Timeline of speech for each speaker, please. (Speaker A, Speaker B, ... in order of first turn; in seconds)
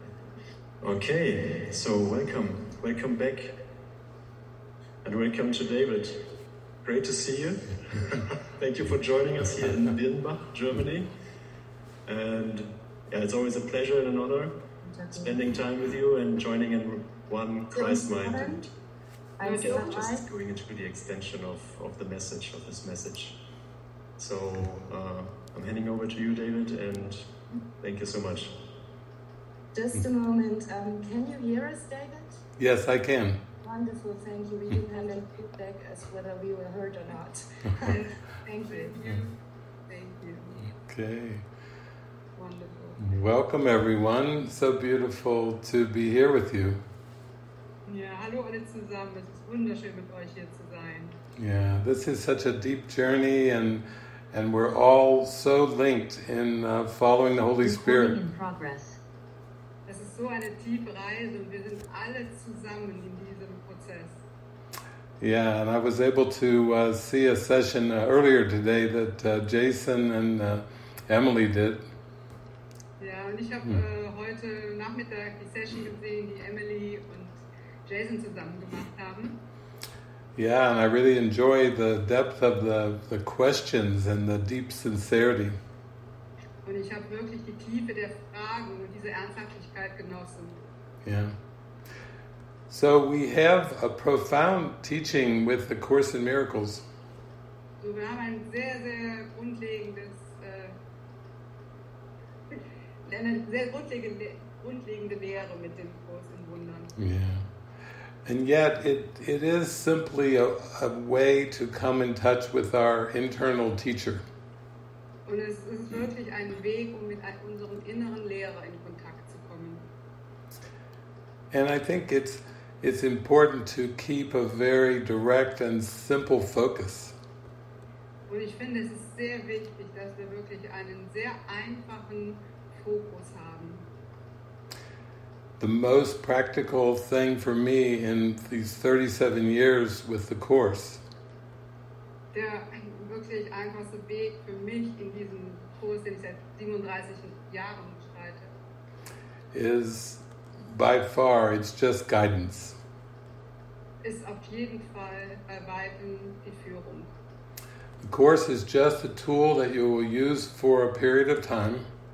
Speaker A: 0.8-3.6, 5.0-6.3, 6.8-11.1, 12.1-18.7, 19.5-23.4, 24.2-28.7
Speaker B: 14.8-15.6, 17.7-18.6, 19.4-20.3, 29.7-32.4, 33.6-39.0, 57.6-59.0
Speaker C: 19.4-20.0, 34.9-35.2, 37.8-39.4, 39.9-40.7, 42.4-43.0, 47.9-51.2, 59.9-64.2, 73.0-79.4, 86.6-90.6, 97.8-100.8, 102.5-106.9, 115.2-119.9, 128.3-133.9, 142.3-148.5, 154.0-157.1
Speaker D: 32.6-33.4, 40.6-41.4, 43.0-46.8, 51.4-58.2, 65.2-71.8, 80.3-85.5, 91.0-91.3, 92.7-96.8, 107.0-107.4, 108.2-114.2, 121.5-127.2, 135.6-141.0, 149.5-152.8, 158.0-161.8